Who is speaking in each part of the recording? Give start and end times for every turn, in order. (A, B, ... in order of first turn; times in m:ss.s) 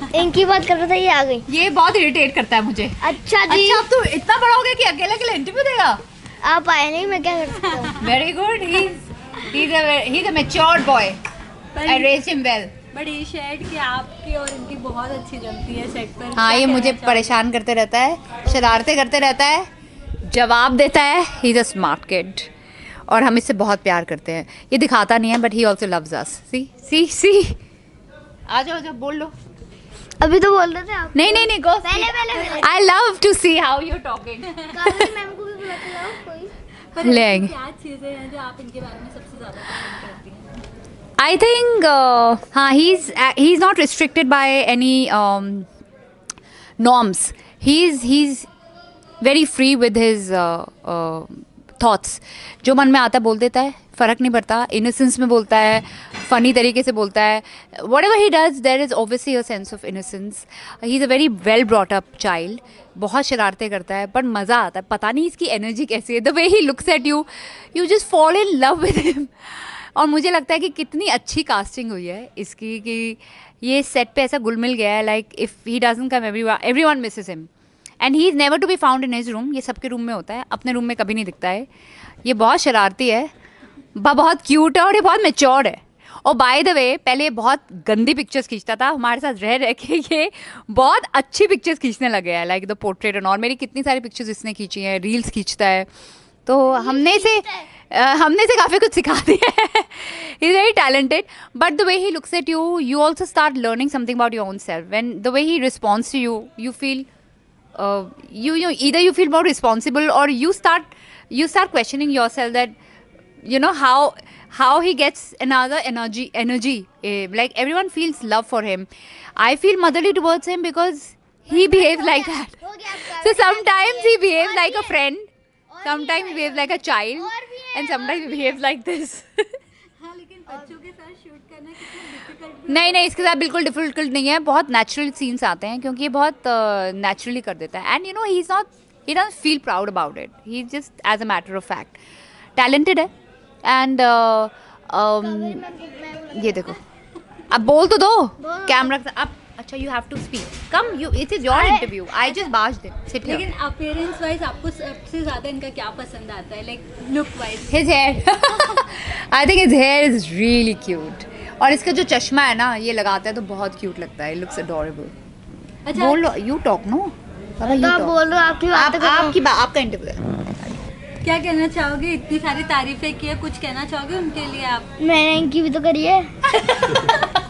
0:00.1-0:01.4 A
0:01.5-0:06.0 B
0:03.0-0:03.8 A
0:06.4-0:08.0 A
0:07.6-0:08.1 C
0:08.0-0:11.2 B
0:11.7-0:12.2 C
0:11.8-0:12.7 B
0:12.9-0:17.4 C
0:16.3-0:19.7 B
0:20.3-0:22.5 B
0:23.1-0:27.6 B
0:28.5-0:29.3 B
0:30.2-0:32.8 A
0:31.1-0:35.1 B
0:34.5-0:34.8 C
0:34.7-0:36.5 A
0:36.9-0:40.6 C
0:37.0-0:37.6 B
0:41.2-0:45.7 B
0:46.8-0:48.5 B
0:49.2-1:17.5 B
1:18.0-1:21.7 B
1:22.2-1:23.3 B
1:24.0-1:35.9 B
1:36.4-1:47.0 B
1:36.8-1:37.6 A
1:47.7-1:52.7 B
1:53.4-2:05.3 B
2:01.5-2:04.9 A
2:05.7-2:08.6 A
2:05.8-2:09.6 B
2:10.0-2:13.3 C
2:12.7-2:22.0 B
2:22.6-2:23.1 B
2:23.6-2:25.7 B
2:25.2-2:26.7 A
2:26.3-2:26.8 B
2:27.5-2:33.5 B
2:28.4-2:28.9 A
2:31.5-2:31.9 A
2:33.2-2:37.8 C
2:37.7-2:45.1 B
2:45.8-2:46.3 C
2:45.9-2:48.1 B
2:47.6-2:49.4 A
2:48.7-2:50.2 B
2:51.2-2:54.9 C
2:55.0-2:56.3 A
2:56.5-2:57.1 B